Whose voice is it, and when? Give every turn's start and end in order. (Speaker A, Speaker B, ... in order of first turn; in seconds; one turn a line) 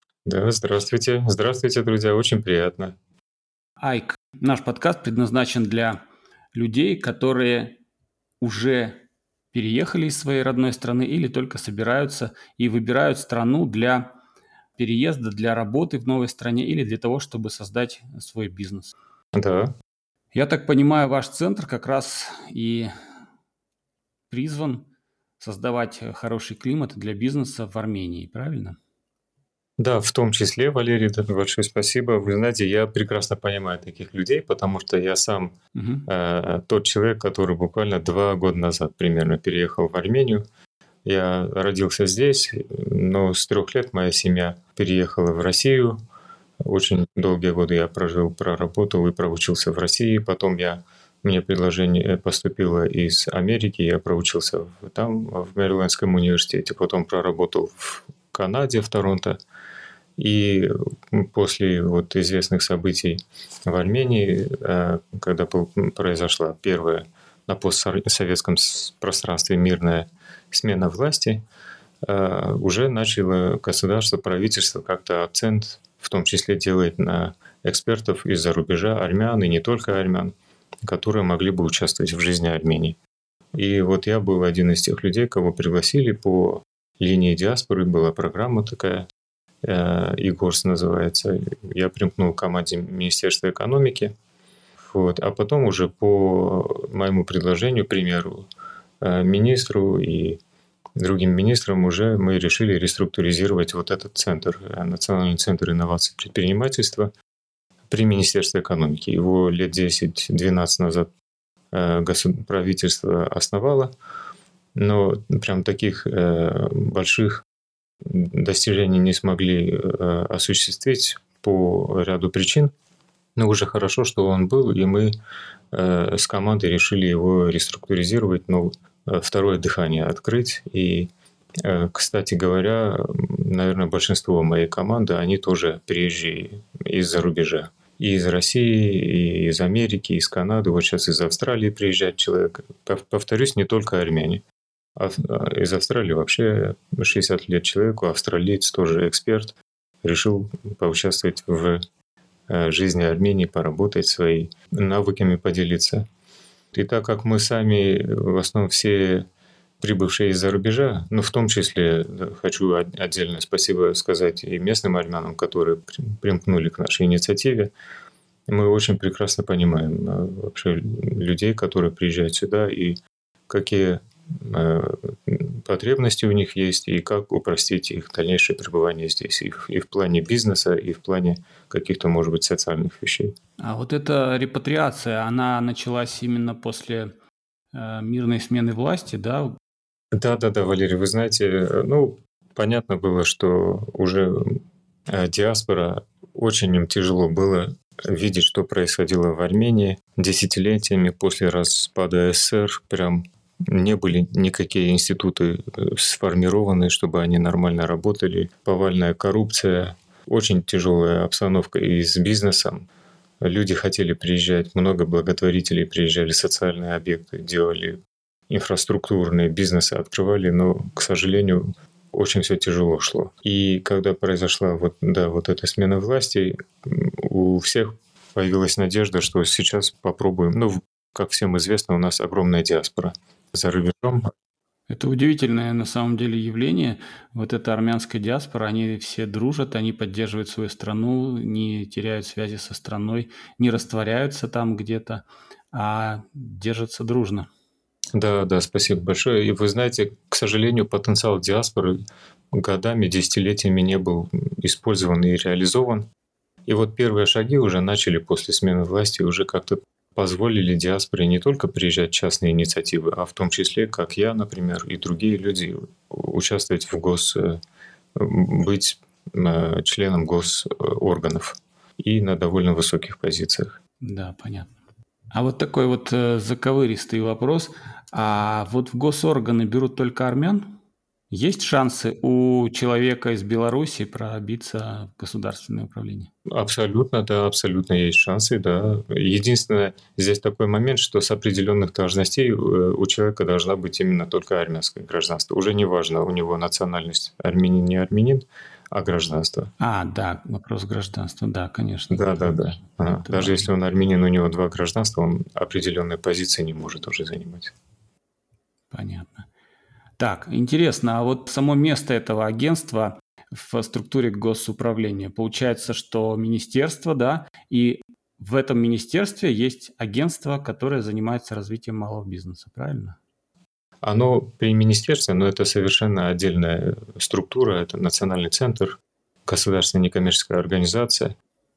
Speaker A: 0.2-3.0
Speaker B: 3.8-6.0
Speaker B: 6.5-7.8
Speaker B: 8.4-14.1
Speaker B: 14.8-18.9
Speaker A: 19.3-19.7
Speaker B: 20.3-22.9
Speaker B: 24.3-24.9
Speaker B: 25.4-28.8
Speaker A: 29.8-35.5
Speaker B: 35.8-36.0
Speaker A: 36.1-40.4
Speaker A: 41.0-46.0
Speaker A: 46.6-59.4
Speaker A: 60.2-71.4
Speaker A: 72.0-80.3
Speaker A: 80.8-83.0
Speaker A: 83.5-89.1
Speaker A: 89.6-94.1
Speaker A: 94.8-98.5
Speaker A: 99.0-100.4
Speaker A: 101.0-107.1
Speaker A: 107.9-111.1
Speaker A: 111.7-113.9
Speaker A: 114.8-117.4
Speaker A: 118.0-122.7
Speaker A: 123.3-125.1
Speaker A: 125.7-144.4
Speaker A: 144.9-151.8
Speaker A: 152.5-156.1
Speaker A: 156.7-159.3
Speaker A: 159.8-167.7
Speaker A: 168.5-183.3
Speaker B: 183.6-187.1
Speaker B: 187.7-189.6
Speaker A: 190.1-212.9
Speaker A: 213.4-234.3
Speaker B: 234.9-247.5
Speaker A: 248.1-252.0
Speaker A: 252.5-256.1
Speaker A: 256.6-267.6
Speaker A: 268.1-273.8
Speaker B: 274.0-274.7
Speaker B: 275.3-280.8
Speaker B: 281.3-286.3
Speaker A: 286.5-299.7
Speaker B: 299.8-302.6
Speaker A: 302.1-307.7
Speaker B: 303.2-303.7
Speaker B: 308.9-309.5
Speaker B: 310.2-323.2
Speaker A: 324.0-331.4